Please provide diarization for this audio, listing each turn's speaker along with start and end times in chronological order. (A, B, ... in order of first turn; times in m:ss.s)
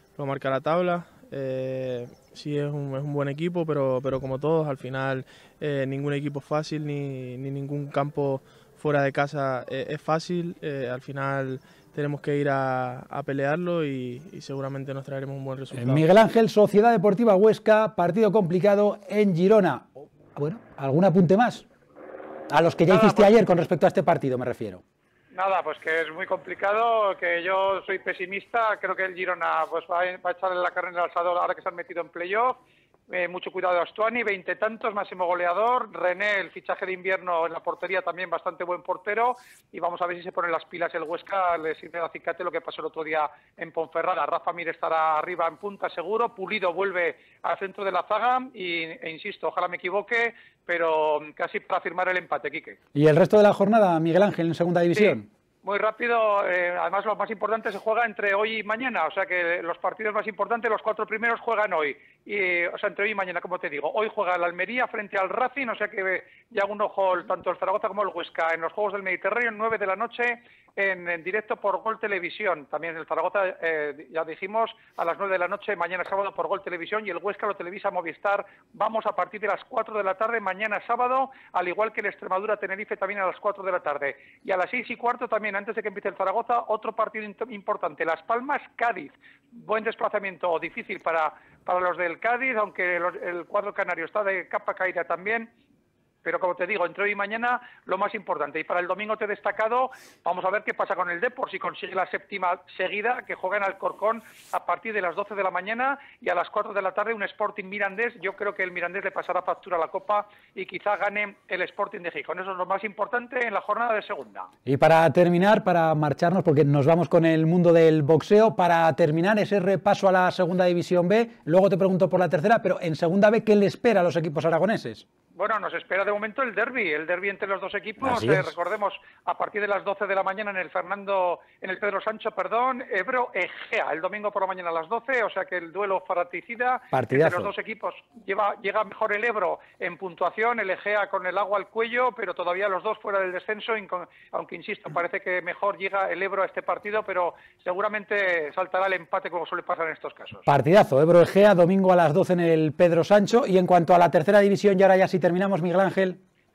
0:00.2-0:16.0 A
0:15.7-0:21.6 B
0:22.5-0:24.8 B
0:22.9-0:23.3 C
0:25.3-0:52.8 C
0:52.9-0:55.3 B
0:54.9-1:35.5 C
1:36.2-1:54.5 C
1:54.6-2:05.0 B
2:05.4-2:30.4 C
2:08.0-2:08.5 B
2:16.9-2:17.5 B
2:30.5-2:36.2 B